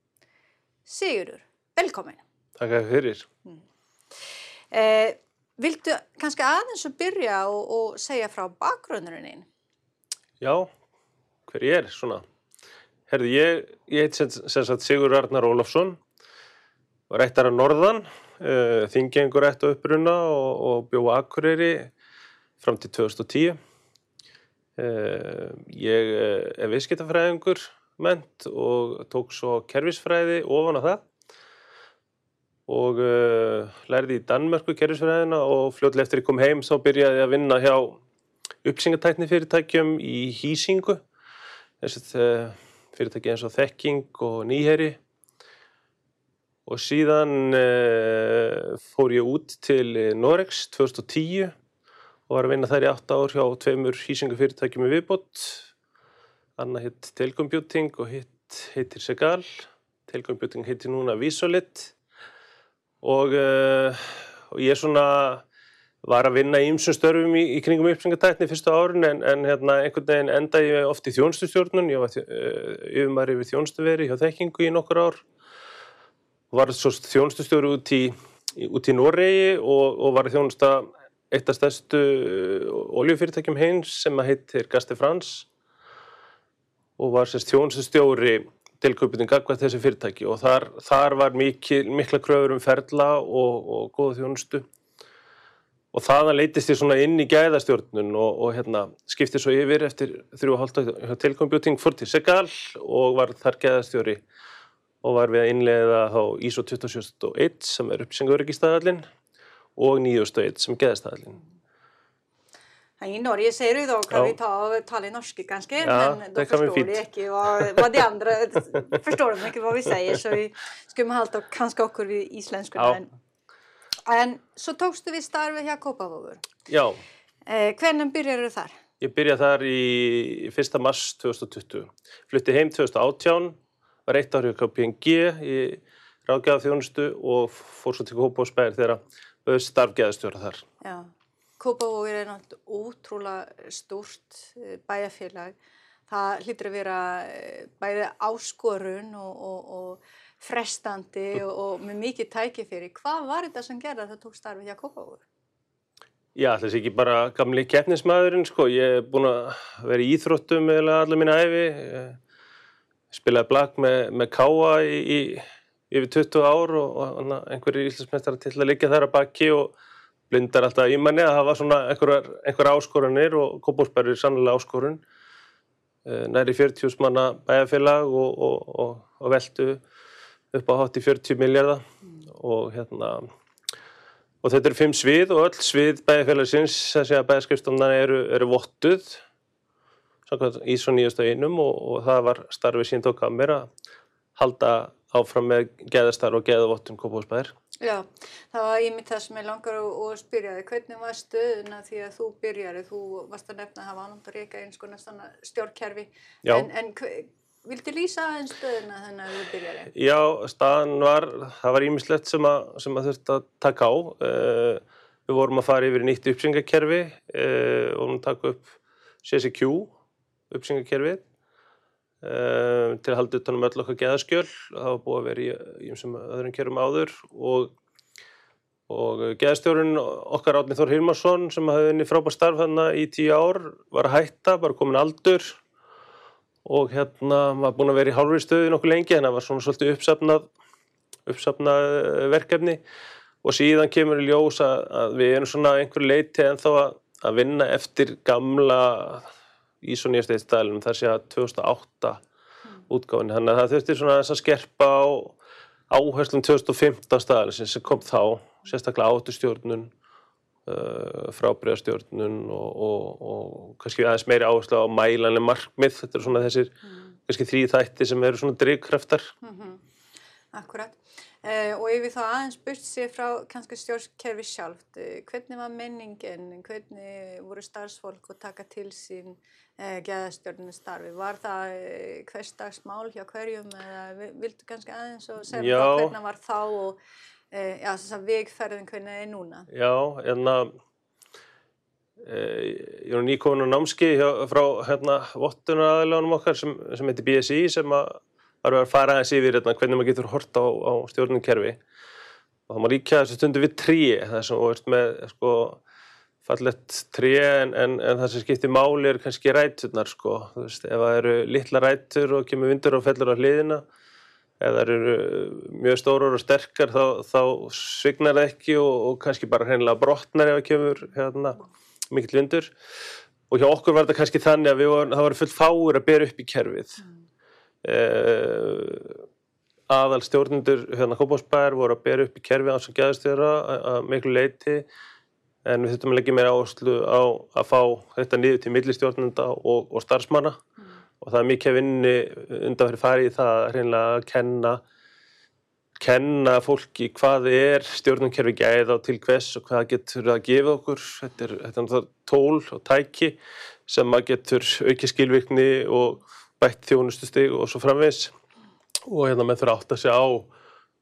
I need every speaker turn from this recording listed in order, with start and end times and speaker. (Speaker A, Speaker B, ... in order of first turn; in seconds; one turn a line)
Speaker A: 0.8-2.2
Speaker B: 2.6-3.3
Speaker A: 4.7-9.5
Speaker B: 10.4-10.7
Speaker B: 11.5-12.2
Speaker B: 13.1-16.0
Speaker B: 17.1-21.9
Speaker B: 22.6-23.6
Speaker B: 24.8-31.0
Speaker B: 32.7-38.0
Speaker B: 38.6-41.0
Speaker B: 41.8-45.0
Speaker B: 46.6-51.5
Speaker B: 52.3-55.7
Speaker B: 56.6-61.9
Speaker B: 63.0-65.4
Speaker B: 66.0-75.2
Speaker B: 76.5-85.5
Speaker B: 87.0-94.6
Speaker B: 95.9-104.2
Speaker B: 105.0-109.0
Speaker B: 109.8-111.4
Speaker A: 113.0-123.1
Speaker B: 114.1-114.3
Speaker B: 115.8-117.0
Speaker A: 124.0-126.4
Speaker B: 126.7-127.0
Speaker A: 127.5-128.8
Speaker B: 129.0-140.6
Speaker A: 140.8-145.5
Speaker A: 146.1-155.2
Speaker B: 156.3-162.2
Speaker B: 163.1-169.7
Speaker B: 170.3-175.0
Speaker B: 176.1-179.8
Speaker B: 180.5-183.3
Speaker B: 184.4-189.2
Speaker B: 190.3-193.7
Speaker B: 194.3-197.5
Speaker A: 197.8-209.9
Speaker B: 209.9-219.9
Speaker B: 220.5-221.2
Speaker B: 222.2-227.7
Speaker B: 228.9-235.6
Speaker B: 236.6-240.5
Speaker B: 241.2-242.8
Speaker B: 243.4-249.3
Speaker B: 249.8-252.2
Speaker B: 252.9-255.4
Speaker B: 255.9-259.9
Speaker B: 260.6-266.7
Speaker A: 266.8-267.1
Speaker B: 267.3-269.3
Speaker A: 269.4-269.8
Speaker A: 270.5-287.0
Speaker B: 285.5-286.1
Speaker A: 287.5-289.7
Speaker B: 289.7-290.7
Speaker B: 292.2-301.8
Speaker B: 302.7-305.8
Speaker B: 306.4-313.8
Speaker B: 314.6-322.7
Speaker B: 323.5-327.0
Speaker B: 327.8-329.2
Speaker B: 329.9-334.9
Speaker B: 335.6-340.6
Speaker B: 341.2-344.8
Speaker B: 346.0-358.3
Speaker B: 359.1-360.5